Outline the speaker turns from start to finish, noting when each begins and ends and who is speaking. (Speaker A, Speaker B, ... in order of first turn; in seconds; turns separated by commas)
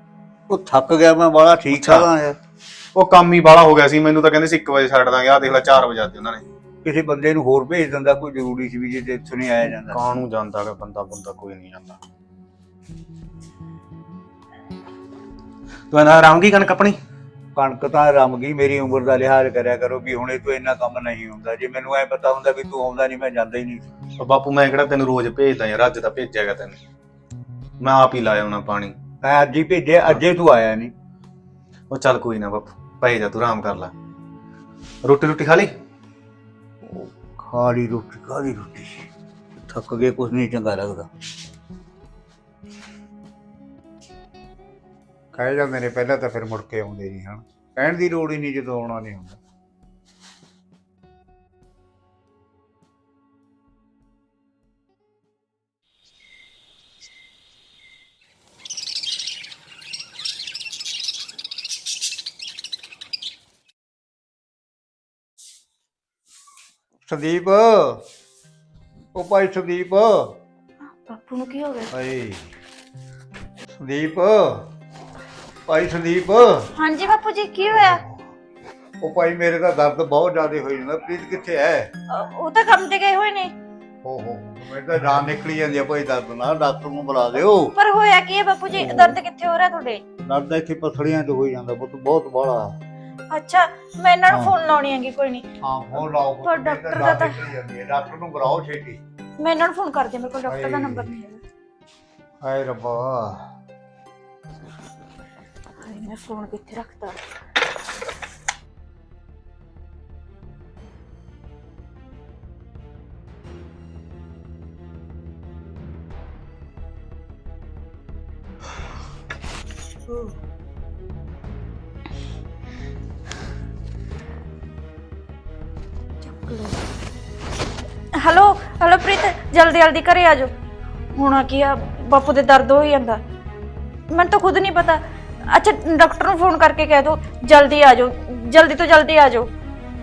Speaker A: 0.5-2.4, Speaker B: 1.7-2.1, Speaker B: 2.9-6.4, Speaker A: 6.8-10.0, Speaker B: 9.7-12.0, Speaker B: 15.9-17.0, Speaker A: 17.6-23.9, Speaker B: 24.2-26.8, Speaker B: 27.8-28.9, Speaker A: 29.2-30.9, Speaker B: 31.9-33.9, Speaker B: 35.0-35.7, Speaker A: 36.8-39.0, Speaker A: 39.5-41.1, Speaker A: 45.3-49.4, Speaker A: 67.0-68.0, Speaker A: 69.1-70.2, Speaker C: 70.8-71.9, Speaker A: 71.9-72.4, Speaker A: 73.8-74.7, Speaker A: 75.7-76.7, Speaker C: 76.7-78.0, Speaker A: 77.7-78.2, Speaker A: 79.0-81.9, Speaker C: 82.1-83.5, Speaker A: 84.0-87.7, Speaker C: 87.7-90.0, Speaker A: 88.7-89.2, Speaker A: 90.2-92.7, Speaker C: 93.3-95.5, Speaker A: 94.3-94.5, Speaker A: 95.6-99.0, Speaker C: 96.4-97.4, Speaker C: 99.4-101.4, Speaker A: 100.5-101.1, Speaker A: 102.4-103.4, Speaker C: 105.8-107.2, Speaker C: 126.2-126.8, Speaker C: 128.2-130.5, Speaker C: 131.1-133.2, Speaker C: 134.1-139.5